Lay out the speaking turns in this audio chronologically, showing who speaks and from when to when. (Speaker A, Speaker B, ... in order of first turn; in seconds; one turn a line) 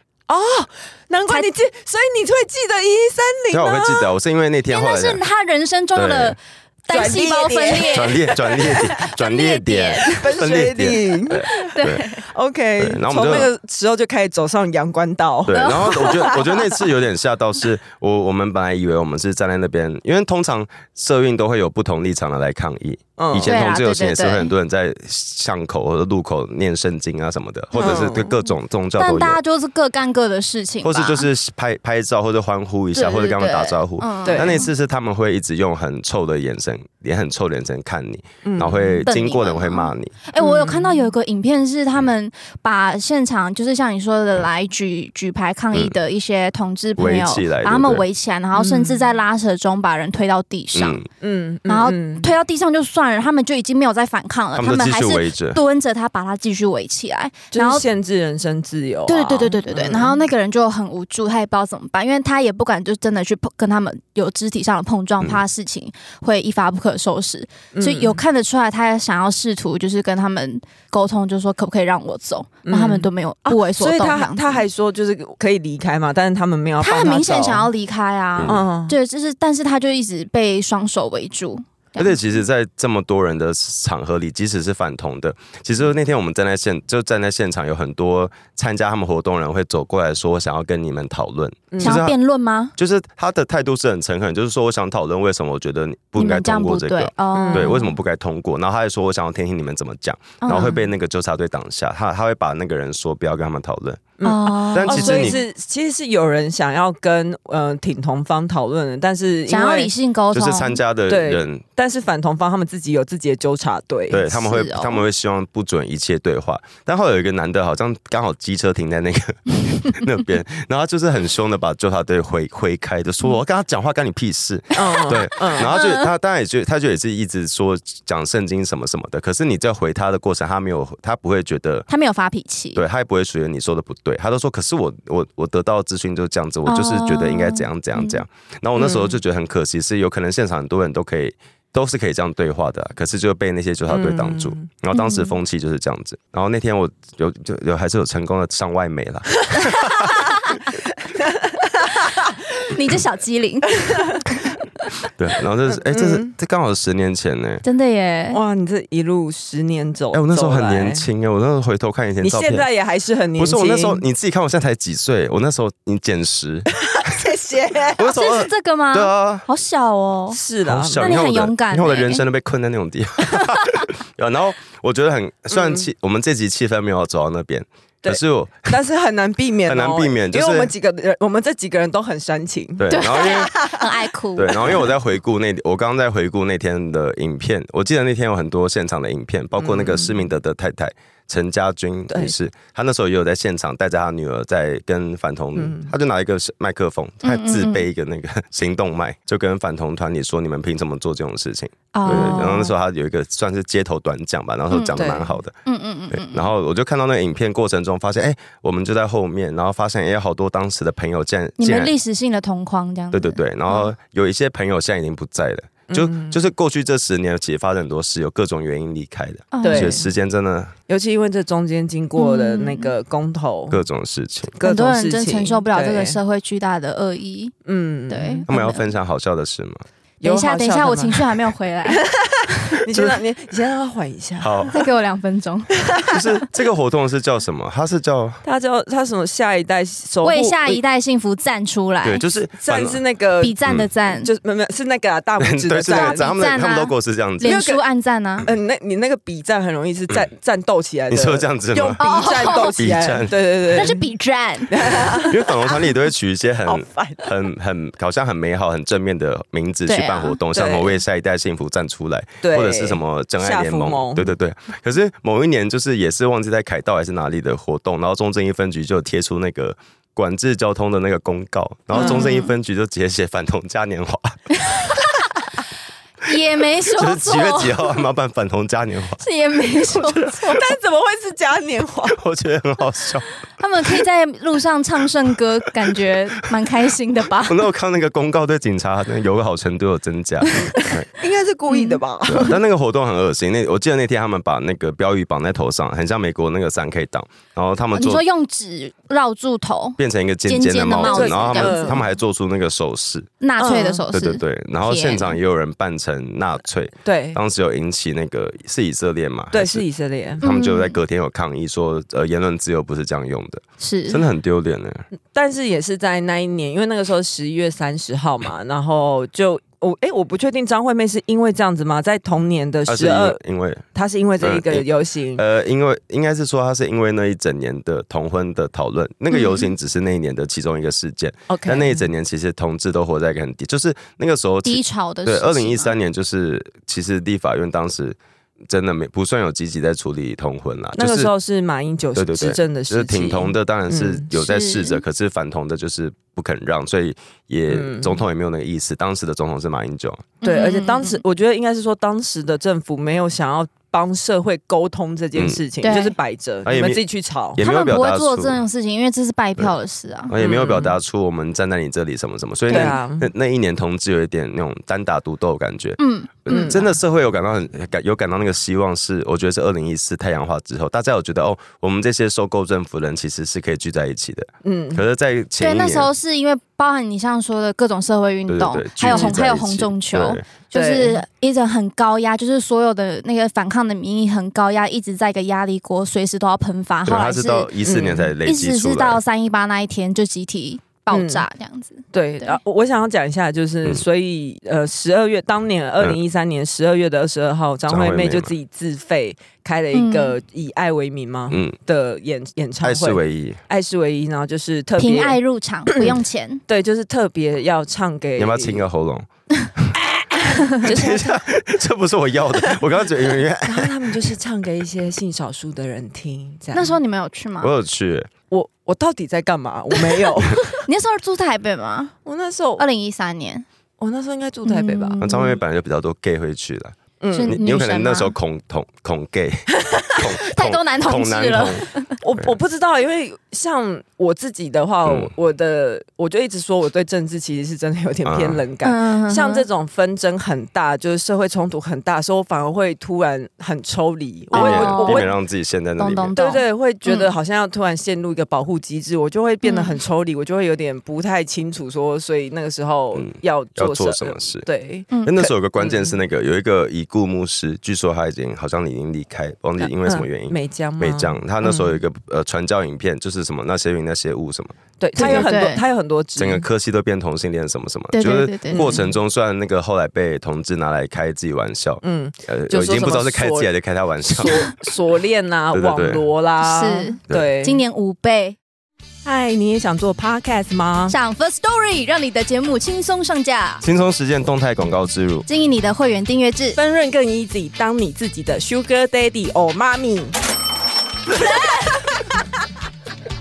Speaker A: 0.3-4.1
Speaker B: 3.5-5.2
Speaker C: 4.7-10.3
Speaker B: 6.0-6.4
Speaker A: 6.9-8.9
Speaker B: 7.9-12.1
Speaker A: 10.2-11.8
Speaker C: 11.5-12.2
Speaker A: 12.3-16.6
Speaker B: 12.8-13.5
Speaker B: 15.5-29.4
Speaker C: 15.5-16.4
Speaker A: 23.2-23.6
Speaker C: 23.4-24.5
Speaker C: 27.7-28.2
Speaker A: 27.8-28.4
Speaker C: 29.0-31.3
Speaker B: 30.8-40.1
Speaker C: 33.0-34.7
Speaker A: 34.2-34.6
Speaker A: 38.4-39.0
Speaker C: 39.1-51.0
Speaker A: 40.4-41.1
Speaker B: 47.0-48.0
Speaker A: 48.5-49.1
Speaker B: 50.8-51.1
Speaker A: 51.2-52.3
Speaker C: 51.7-57.9
Speaker B: 54.5-55.6
Speaker A: 57.5-60.2
Speaker C: 59.1-74.6
Speaker A: 67.8-68.2
Speaker A: 72.7-77.7
Speaker C: 76.8-82.2
Speaker B: 78.4-78.6
Speaker A: 78.5-79.0
Speaker B: 82.0-92.2
Speaker A: 91.7-92.0
Speaker C: 91.8-92.7
Speaker B: 92.8-104.2
Speaker C: 96.2-97.9
Speaker A: 97.3-97.8
Speaker C: 100.4-100.8
Speaker A: 104.2-109.9
Speaker C: 104.2-105.4
Speaker B: 104.7-105.4
Speaker C: 109.5-110.8
Speaker B: 110.3-111.6
Speaker A: 111.1-114.2
Speaker B: 114.1-131.9
Speaker C: 114.3-115.0
Speaker A: 124.8-125.7
Speaker C: 125.6-126.1
Speaker C: 131.9-132.8
Speaker B: 132.8-150.2
Speaker C: 136.7-138.2
Speaker A: 138.8-139.2
Speaker A: 143.9-144.7
Speaker C: 144.9-145.4
Speaker A: 151.2-152.2
Speaker C: 152.6-154.2
Speaker B: 155.1-157.6
Speaker A: 155.8-156.3
Speaker C: 157.6-158.4
Speaker A: 158.3-161.1
Speaker B: 160.1-162.7
Speaker A: 162.2-164.0
Speaker B: 163.4-167.2
Speaker A: 166.7-168.1
Speaker B: 167.9-169.5
Speaker C: 168.0-170.4
Speaker A: 170.3-171.1
Speaker B: 170.7-178.8
Speaker C: 171.0-172.2
Speaker A: 175.5-175.9
Speaker A: 178.0-183.9
Speaker B: 179.7-180.7
Speaker B: 182.8-183.6
Speaker C: 182.9-184.8
Speaker B: 184.4-205.6
Speaker A: 189.6-190.2
Speaker A: 195.6-195.9
Speaker C: 197.2-197.9
Speaker C: 201.9-202.7
Speaker A: 202.1-202.7
Speaker C: 204.7-205.0
Speaker A: 204.9-205.4
Speaker C: 205.7-206.5
Speaker B: 206.1-211.9
Speaker C: 211.6-213.9
Speaker B: 213.1-220.7
Speaker A: 215.9-216.4
Speaker C: 219.5-220.0
Speaker A: 219.6-220.1
Speaker A: 220.9-223.8
Speaker C: 222.2-222.9
Speaker B: 223.7-224.6
Speaker A: 224.6-226.2
Speaker C: 224.6-227.5
Speaker A: 227.7-228.5
Speaker C: 228.1-228.9
Speaker B: 228.5-229.8
Speaker A: 230.2-234.8
Speaker C: 230.2-232.0
Speaker B: 232.9-233.2
Speaker B: 234.4-234.8
Speaker C: 234.7-236.2
Speaker A: 235.8-236.2
Speaker B: 236.1-238.4
Speaker A: 238.4-240.8
Speaker C: 240.2-242.2
Speaker B: 242.0-243.0
Speaker A: 242.6-243.6
Speaker C: 243.4-244.3
Speaker A: 244.1-246.3
Speaker B: 245.4-247.6
Speaker C: 245.9-248.5
Speaker A: 247.4-247.8
Speaker A: 248.4-254.1
Speaker B: 251.1-253.4
Speaker C: 252.0-252.8
Speaker C: 253.7-255.3
Speaker A: 254.7-255.9
Speaker B: 255.2-274.9
Speaker A: 256.7-257.4
Speaker C: 259.9-260.4
Speaker A: 260.5-261.0
Speaker A: 262.4-264.3
Speaker C: 271.9-272.5
Speaker A: 271.9-272.4
Speaker C: 274.7-274.9
Speaker C: 276.2-277.9
Speaker B: 276.9-279.2
Speaker C: 279.2-280.7
Speaker B: 279.8-280.6
Speaker A: 280.5-282.2
Speaker B: 282.1-283.3
Speaker C: 283.6-287.7
Speaker B: 287.4-291.1
Speaker C: 290.5-290.9
Speaker A: 290.8-292.6
Speaker C: 291.7-292.0
Speaker B: 292.3-298.2
Speaker C: 297.9-302.0
Speaker B: 300.0-303.3
Speaker A: 301.0-302.0
Speaker C: 303.4-305.4
Speaker A: 303.6-304.0
Speaker B: 304.1-309.9
Speaker A: 307.1-307.4
Speaker A: 309.5-310.4
Speaker B: 310.4-315.0
Speaker C: 310.4-311.0
Speaker C: 313.8-314.2
Speaker A: 315.3-323.4
Speaker B: 322.9-323.9
Speaker A: 323.9-325.4
Speaker B: 324.4-338.2
Speaker C: 329.3-329.7
Speaker A: 331.5-332.1
Speaker C: 334.6-335.9
Speaker B: 338.7-341.3
Speaker A: 341.0-344.3
Speaker B: 342.1-350.3
Speaker C: 344.3-345.0
Speaker A: 347.7-348.2
Speaker C: 350.4-351.2
Speaker A: 350.4-357.6
Speaker B: 355.4-355.6
Speaker C: 355.8-356.1
Speaker B: 356.6-357.0
Speaker B: 357.6-358.6
Speaker C: 357.6-360.3
Speaker B: 360.3-376.1
Speaker A: 360.4-361.0
Speaker A: 362.7-363.3
Speaker C: 362.7-363.0
Speaker C: 366.0-366.8
Speaker A: 366.5-366.9
Speaker A: 374.6-375.0
Speaker C: 375.6-387.7
Speaker B: 378.5-380.5
Speaker A: 379.1-379.4
Speaker A: 380.7-381.2
Speaker B: 387.1-389.2
Speaker A: 387.9-388.3
Speaker C: 388.4-392.6
Speaker A: 391.1-391.5
Speaker A: 392.1-405.4
Speaker B: 397.9-398.5
Speaker C: 399.9-400.4
Speaker B: 401.5-401.8
Speaker B: 402.8-403.6
Speaker C: 405.0-406.6
Speaker A: 406.7-408.9
Speaker B: 408.4-410.0
Speaker A: 410.0-411.4
Speaker B: 410.8-414.3
Speaker A: 413.6-417.0
Speaker C: 416.7-417.7
Speaker B: 417.6-418.3
Speaker A: 418.5-420.8
Speaker C: 420.0-422.1
Speaker A: 422.2-422.8
Speaker C: 422.8-423.7
Speaker A: 424.0-425.3
Speaker C: 424.6-425.6
Speaker B: 425.2-432.6
Speaker A: 427.2-427.6
Speaker C: 427.3-428.4
Speaker A: 429.9-430.2
Speaker C: 430.4-432.1
Speaker A: 432.2-445.3
Speaker B: 435.1-435.3
Speaker B: 438.2-438.6
Speaker C: 438.8-439.6
Speaker B: 444.5-446.4
Speaker C: 444.5-445.3
Speaker C: 446.0-447.3
Speaker A: 446.4-456.2
Speaker C: 449.6-450.0
Speaker B: 453.1-454.7
Speaker C: 455.1-455.4
Speaker B: 455.2-465.5
Speaker A: 459.8-462.0
Speaker A: 465.0-466.7
Speaker C: 465.2-465.8
Speaker B: 466.4-474.7
Speaker C: 468.1-468.9
Speaker A: 468.7-469.1
Speaker A: 472.0-473.7
Speaker A: 474.3-477.8
Speaker B: 475.7-476.3
Speaker C: 476.6-478.6
Speaker A: 479.2-481.1
Speaker C: 481.1-483.8
Speaker B: 483.8-485.5
Speaker C: 485.5-486.8
Speaker A: 486.8-490.4
Speaker A: 491.4-491.9